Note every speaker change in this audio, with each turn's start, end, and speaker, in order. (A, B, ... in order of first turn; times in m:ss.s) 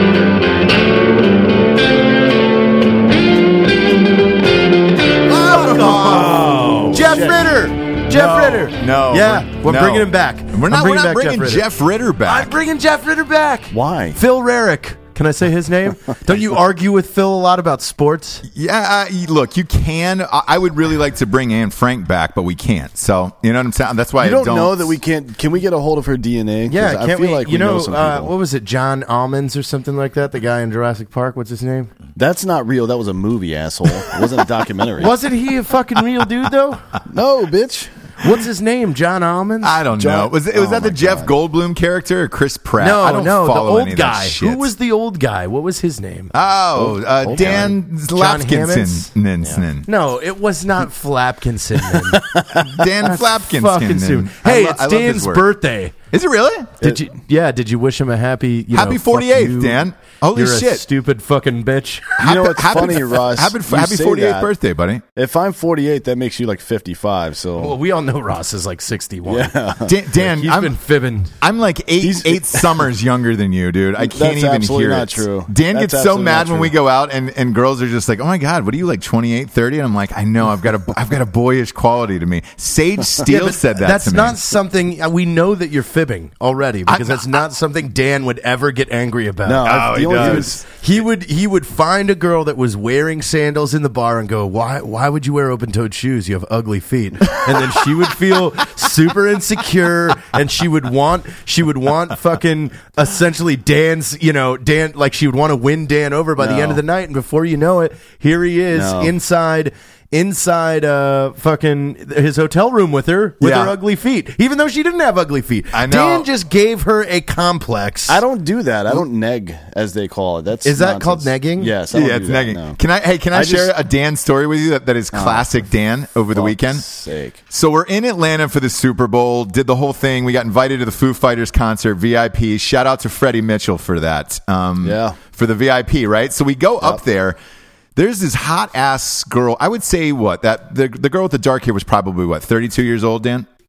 0:05.3-0:11.6 A
0:05.3-0:07.0 B
0:07.0-0:07.5 C
0:08.1-0:12.6 B
0:12.2-0:18.4 A
0:13.7-0:14.2 C
0:18.5-0:25.0 B
0:24.2-0:28.3 C
0:26.7-0:31.9 A
0:32.2-0:35.1 C
0:35.0-0:37.0 A
0:37.1-0:37.9 C
0:38.2-0:39.8 A
0:39.6-0:44.7 B
0:40.0-0:41.3 C
0:42.8-0:46.3 A
0:46.3-0:49.9 B
0:46.8-0:47.8 C
0:47.4-0:49.1 A
0:49.9-0:52.3 A
0:52.6-0:55.4 B
0:52.8-0:55.9 A
0:56.1-0:56.8 B
0:56.8-1:02.2 A
0:58.7-1:00.9 B
1:02.2-1:05.0 B
1:02.2-1:04.5 C
1:05.2-1:07.8 C
1:07.6-1:09.5 A
1:09.3-1:10.0 C
1:09.9-1:10.8 B
1:10.1-1:11.4 A
1:11.4-1:24.4 B
1:12.0-1:12.9 C
1:14.0-1:16.7 C
1:23.3-1:58.2 A
1:26.9-1:27.2 B
1:29.4-1:30.6 C
1:29.6-1:30.6 B
1:46.4-1:46.8 C
1:48.7-1:49.1 C
1:53.4-1:53.8 B
1:55.7-1:56.3 B
1:58.1-2:02.8 C
2:00.6-2:01.7 A
2:01.9-2:06.8 B
2:03.3-2:03.7 C
2:05.1-2:05.4 C
2:06.3-2:07.4 C
2:07.5-2:17.4 B
2:14.8-2:15.2 C
2:18.0-2:23.5 B